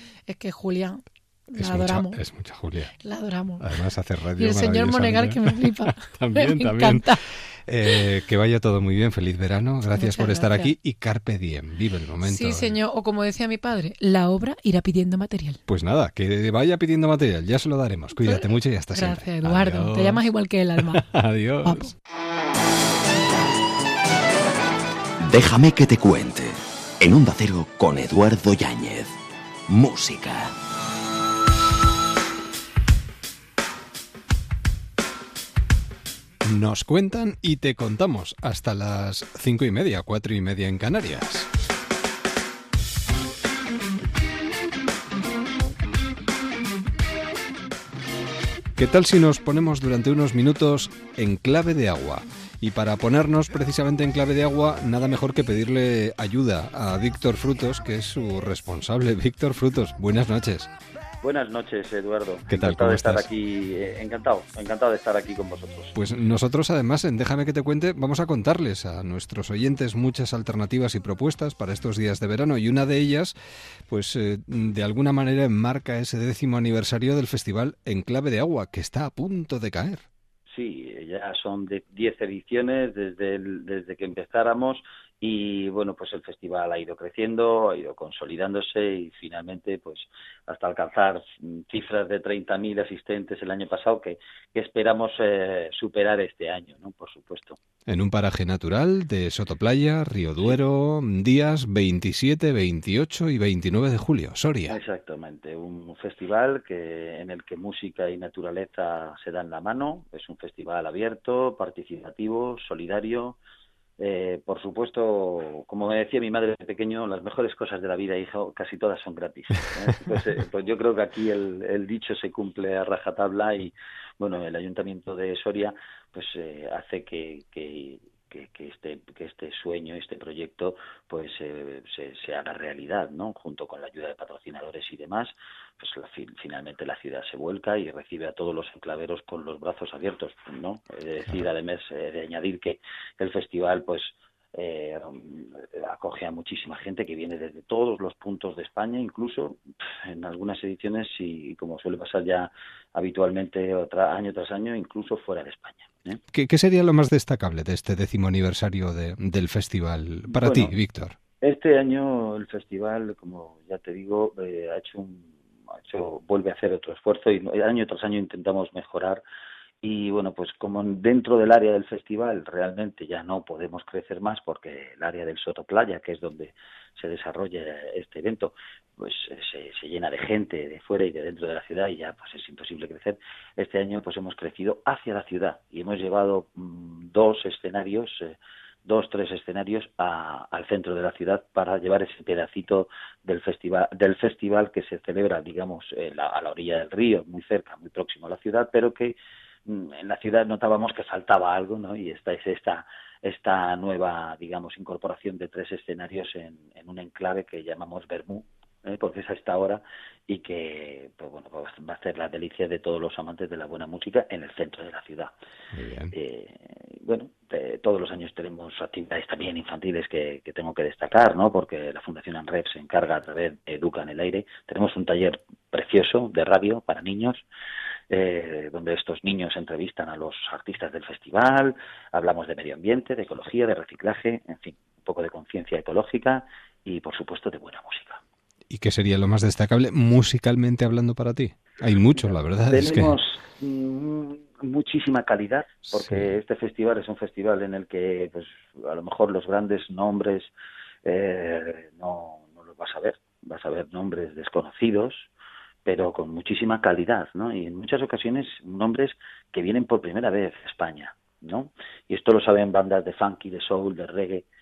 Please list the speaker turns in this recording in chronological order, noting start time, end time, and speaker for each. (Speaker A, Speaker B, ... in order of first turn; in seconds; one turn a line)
Speaker A: 0.3-2.2
Speaker B: 1.6-2.9
Speaker A: 3.0-3.6
Speaker B: 3.6-12.8
Speaker A: 4.4-7.2
Speaker A: 9.9-10.7
Speaker A: 12.2-15.6
Speaker B: 15.7-20.2
Speaker A: 18.2-21.0
Speaker B: 20.8-21.9
Speaker A: 21.6-21.9
Speaker C: 25.2-29.1
Speaker C: 29.7-30.5
Speaker B: 36.4-41.5
Speaker B: 48.8-60.7
Speaker D: 61.2-65.9
Speaker B: 62.5-63.2
Speaker B: 65.9-73.3
Speaker B: 73.9-80.0
Speaker D: 80.5-97.6
Speaker B: 97.9-104.8
Speaker D: 104.7-113.4
Speaker D: 114.0-156.2
Speaker B: 156.3-161.2
Speaker D: 160.3-160.7
Speaker D: 161.4-169.2
Speaker D: 169.8-199.2
Speaker D: 199.7-215.3
Speaker B: 215.7-216.1
Speaker D: 216.1-227.4
Speaker D: 228.1-238.2
Speaker B: 238.7-243.2
Speaker D: 242.2-250.5
Speaker B: 245.9-246.4
Speaker D: 251.0-255.3
Speaker D: 255.8-264.4